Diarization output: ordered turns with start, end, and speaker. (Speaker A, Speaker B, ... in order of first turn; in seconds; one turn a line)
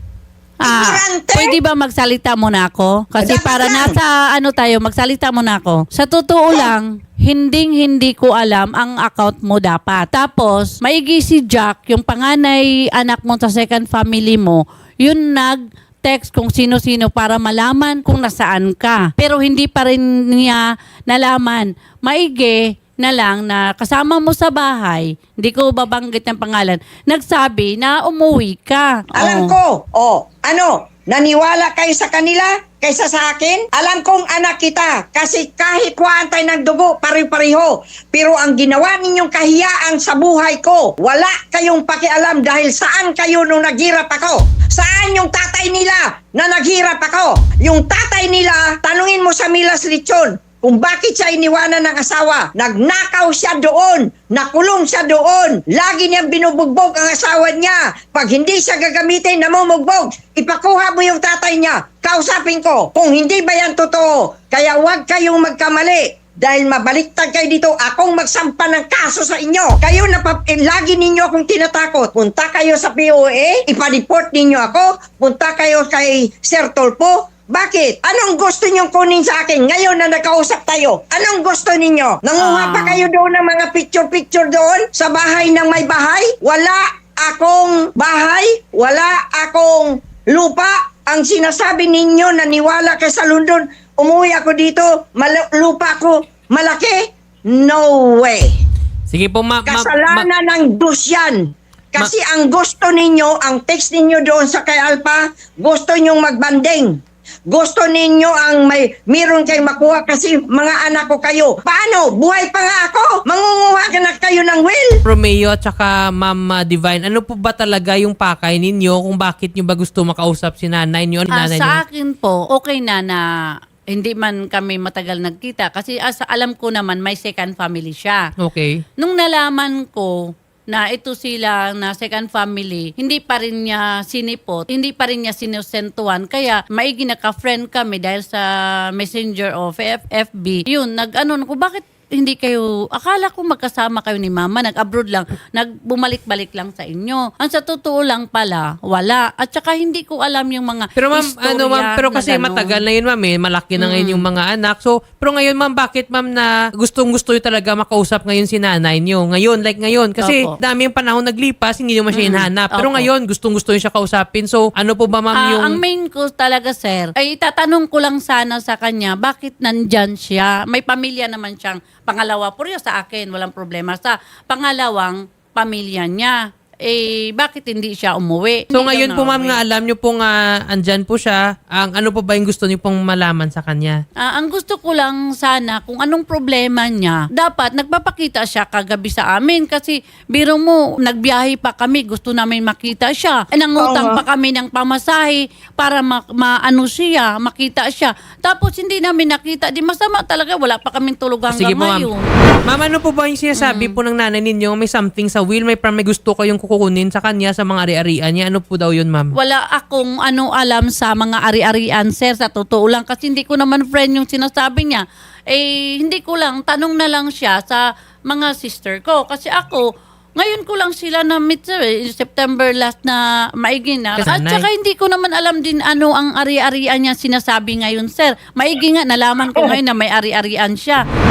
Speaker A: 0.6-29.5
Speaker B: 0.7-1.6
Speaker B: 3.2-4.0
Speaker B: 29.2-98.5
Speaker A: 82.4-83.0
Speaker C: 99.1-100.3
Speaker B: 99.7-115.0
Speaker C: 115.0-121.8
Speaker A: 121.3-123.2
Speaker A: 123.9-128.2
Speaker C: 128.4-128.8
Speaker A: 129.0-152.8
Speaker C: 151.0-165.8
Speaker A: 153.8-154.2
Speaker A: 160.2-160.6
Speaker A: 162.1-163.1
Speaker A: 165.3-179.6
Speaker C: 178.7-184.0
Speaker A: 184.2-202.3
Speaker B: 193.8-194.2
Speaker C: 201.5-202.1
Speaker C: 202.7-209.3
Speaker A: 203.6-203.9
Speaker A: 209.4-231.0
Speaker C: 224.2-224.7